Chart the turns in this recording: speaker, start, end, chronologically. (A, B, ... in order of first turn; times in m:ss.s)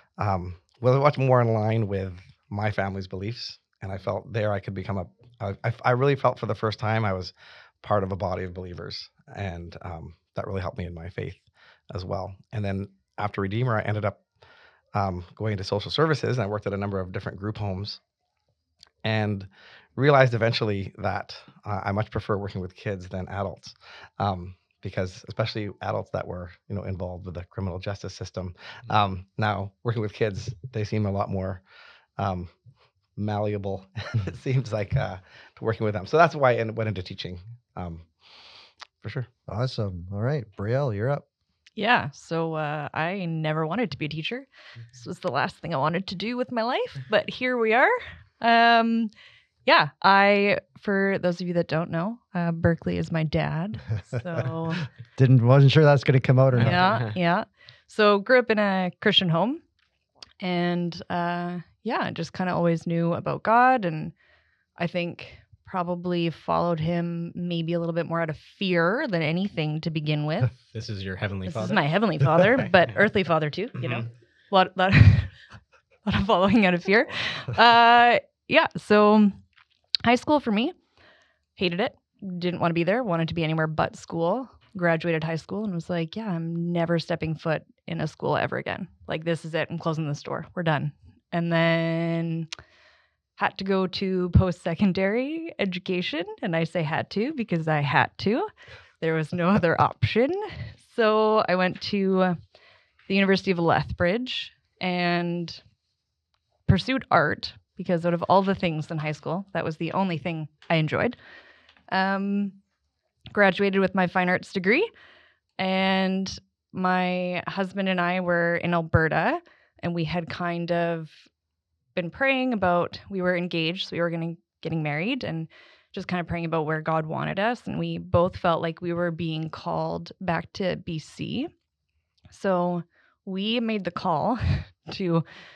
0:00.2-0:14.2 A
0:14.9-0:18.0 A
0:19.0-0:31.6 A
0:32.2-0:32.5 A
0:33.2-0:38.1 A
0:39.0-0:39.3 A
0:39.5-0:41.2 B
0:41.8-0:49.1 C
0:49.7-0:54.8 C
0:55.2-0:57.0 B
0:56.6-0:59.6 C
0:56.6-0:57.1 D
1:00.4-1:04.1 C
1:04.8-1:10.5 C
1:10.7-1:11.8 D
1:11.5-1:15.3 C
1:13.8-1:14.0 D
1:16.0-1:19.4 C
1:20.0-1:20.8 C
1:21.6-1:32.5 C
1:33.4-1:42.4 C
1:43.1-1:45.6 C
1:46.7-1:51.2 C
1:51.9-1:52.6 C
1:53.3-1:54.9 C
1:55.6-2:01.3 C
2:02.0-2:11.5 C
2:12.3-2:15.2 C